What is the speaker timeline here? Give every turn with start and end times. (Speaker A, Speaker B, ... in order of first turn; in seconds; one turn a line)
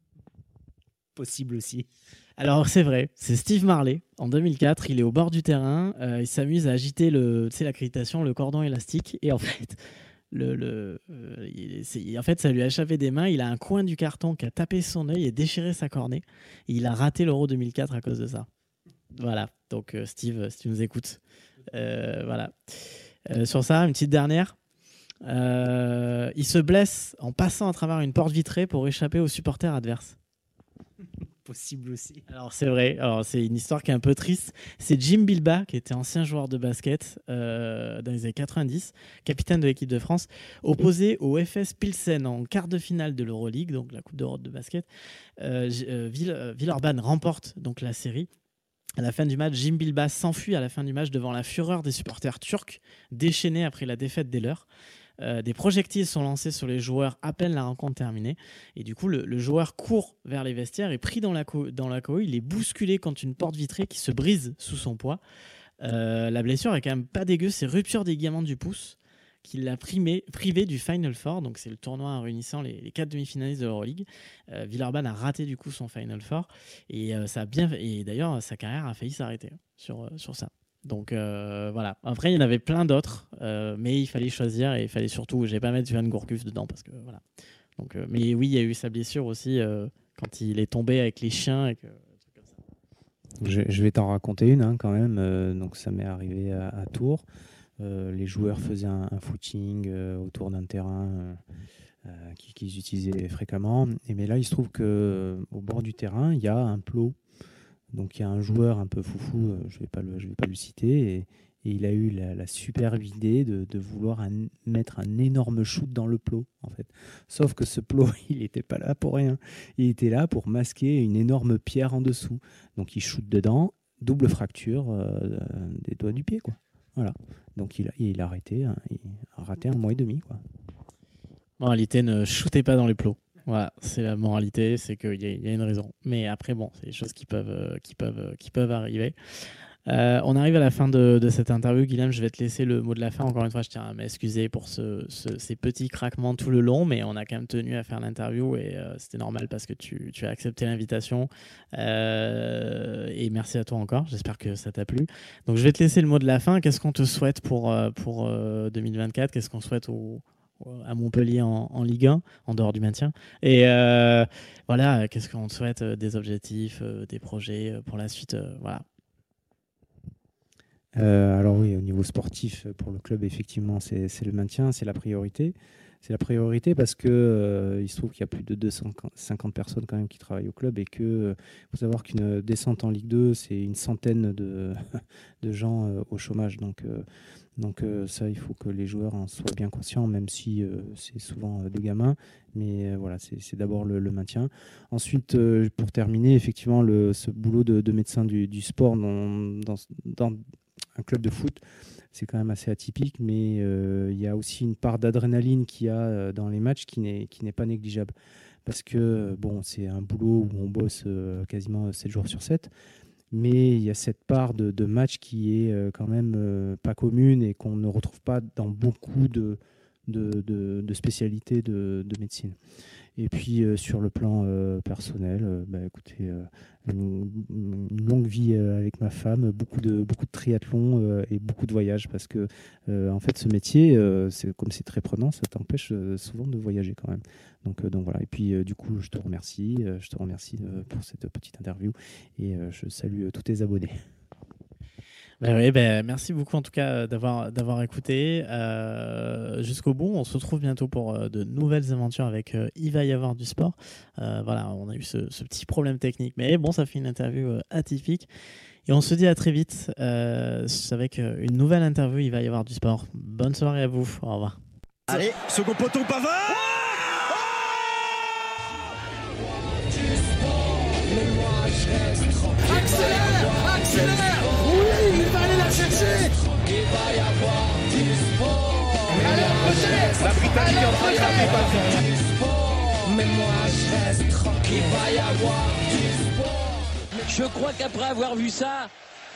Speaker A: 1.1-1.9
Speaker B: 2.4-18.5
Speaker B: 19.1-21.2
Speaker B: 21.7-24.6
Speaker B: 25.2-30.2
Speaker A: 31.4-32.2
Speaker B: 32.3-44.9
Speaker B: 45.4-48.3
Speaker B: 49.0-54.7
Speaker B: 55.2-65.2
Speaker B: 65.8-87.2
Speaker B: 87.8-92.6
Speaker A: 93.4-97.2
Speaker A: 97.8-101.4
Speaker A: 102.0-107.2
Speaker A: 107.9-130.4
Speaker B: 131.6-139.2
Speaker B: 139.9-168.8
Speaker A: 170.9-187.1
Speaker A: 187.6-200.4
Speaker A: 201.0-208.1
Speaker A: 208.7-212.7
Speaker A: 213.3-222.6
Speaker A: 223.2-244.0
Speaker B: 245.4-258.3
Speaker B: 258.9-264.6
Speaker C: 265.1-267.5
Speaker D: 269.4-288.9
Speaker C: 280.2-281.1